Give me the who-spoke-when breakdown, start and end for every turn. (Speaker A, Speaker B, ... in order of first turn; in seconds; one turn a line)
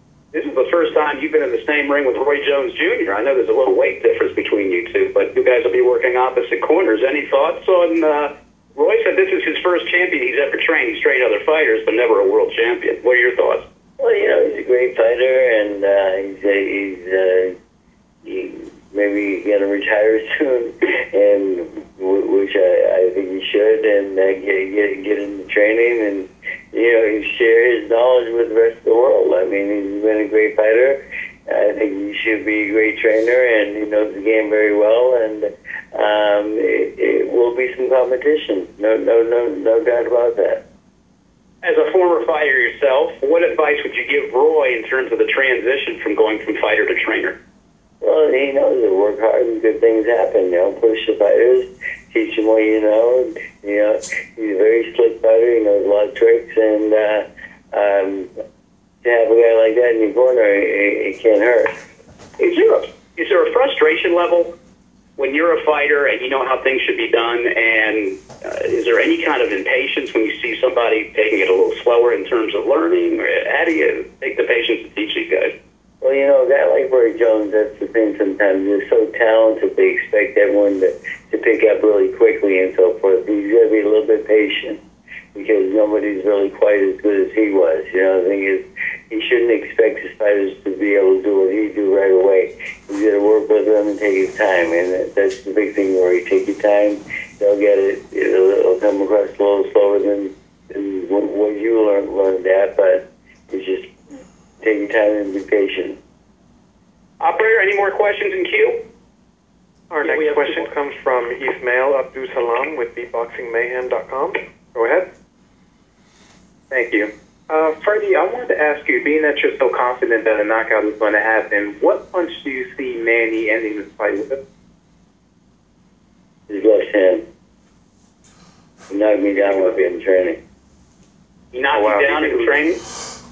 Speaker A: 0.3-13.6
Speaker B: 14.0-17.6
Speaker B: 18.2-40.6
Speaker A: 41.6-47.4
Speaker B: 48.0-58.3
Speaker B: 59.0-61.7
Speaker A: 62.4-64.5
Speaker A: 65.2-75.5
Speaker B: 76.0-84.8
Speaker B: 85.3-103.9
Speaker B: 104.6-106.0
Speaker A: 107.2-108.8
Speaker C: 109.9-115.1
Speaker A: 110.1-110.7
Speaker D: 116.7-124.4
Speaker B: 126.5-127.2
Speaker B: 128.9-130.4
Speaker A: 131.5-132.8